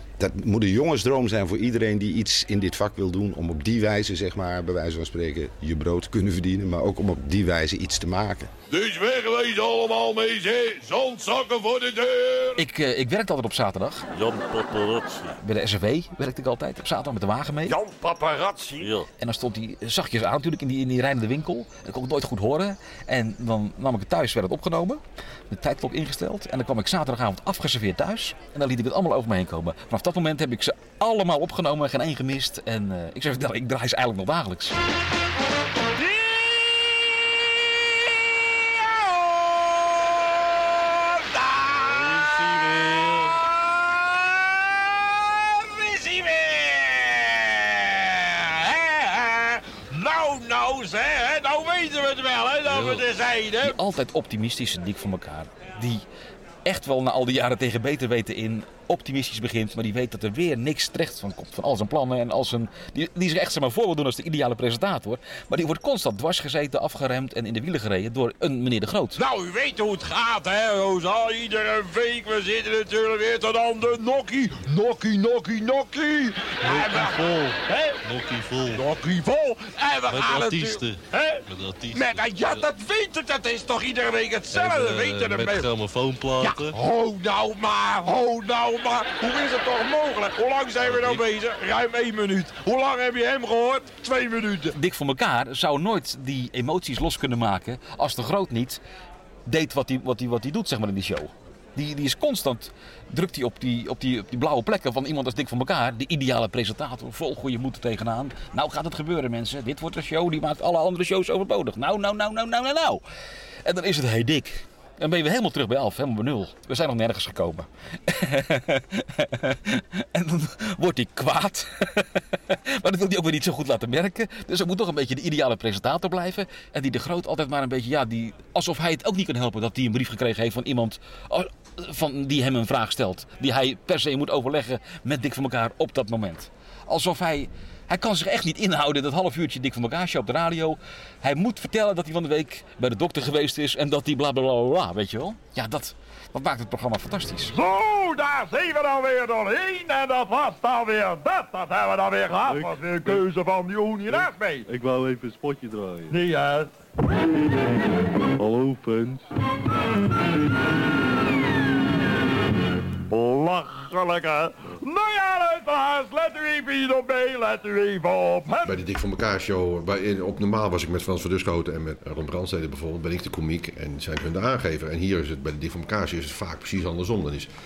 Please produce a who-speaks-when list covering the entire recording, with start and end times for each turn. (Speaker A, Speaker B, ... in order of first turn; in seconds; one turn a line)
Speaker A: 0.2-8.5
Speaker B: 8.7-12.6
Speaker C: 12.6-14.0
Speaker D: 14.1-15.4
Speaker C: 15.4-17.8
Speaker E: 17.7-18.9
Speaker D: 18.8-19.1
Speaker C: 19.2-34.8
Speaker D: 42.0-43.2
Speaker E: 50.0-51.7
Speaker F: 51.3-52.3
Speaker E: 52.3-53.7
Speaker D: 52.7-53.0
Speaker C: 53.6-56.0
Speaker C: 56.6-69.2
Speaker E: 69.2-71.3
Speaker F: 71.0-72.0
Speaker E: 72.0-73.8
Speaker F: 73.6-75.7
Speaker E: 74.6-77.1
Speaker D: 76.6-78.9
Speaker E: 78.8-80.8
Speaker D: 80.1-82.7
Speaker E: 81.9-85.7
Speaker D: 84.5-86.8
Speaker E: 86.4-94.7
Speaker D: 90.9-91.2
Speaker C: 94.7-98.8
Speaker C: 99.5-113.0
Speaker C: 113.7-147.6
Speaker F: 147.5-153.8
Speaker E: 152.3-153.2
Speaker D: 152.5-153.1
Speaker E: 153.9-154.6
Speaker D: 154.1-156.2
Speaker F: 156.1-156.7
Speaker D: 158.4-159.2
Speaker F: 163.1-168.7
Speaker G: 168.6-177.5